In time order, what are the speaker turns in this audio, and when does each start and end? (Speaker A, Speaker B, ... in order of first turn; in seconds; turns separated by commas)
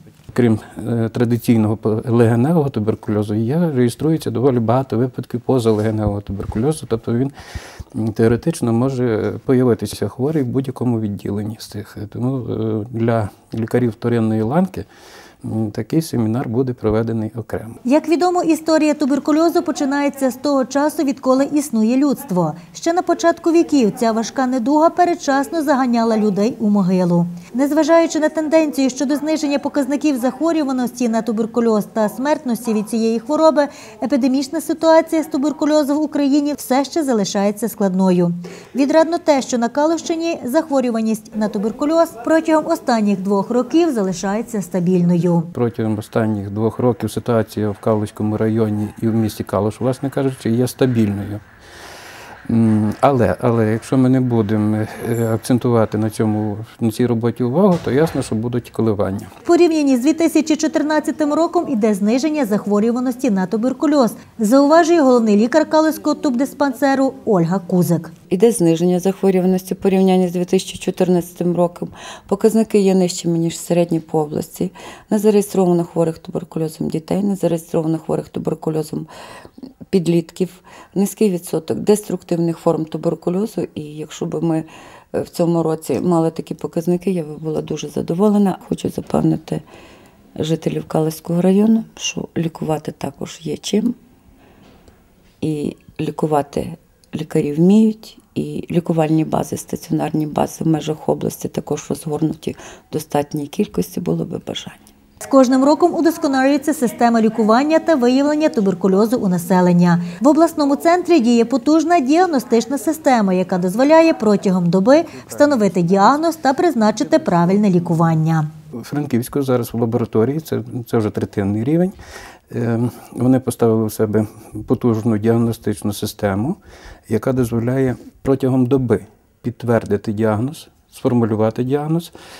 Speaker A: 0.3-7.3, Speaker A: 7.9-14.8, Speaker A: 15.4-17.8, Speaker B: 17.8-45.5, Speaker A: 45.5-51.4, Speaker A: 52.5-59.3, Speaker B: 59.4-68.1, Speaker C: 68.3-79.1, Speaker C: 79.9-89.6, Speaker C: 90.3-93.9, Speaker C: 95.4-104.8, Speaker B: 105.2-118.5, Speaker A: 118.8-121.9, Speaker A: 122.5-126.6, Speaker A: 127.1-132.1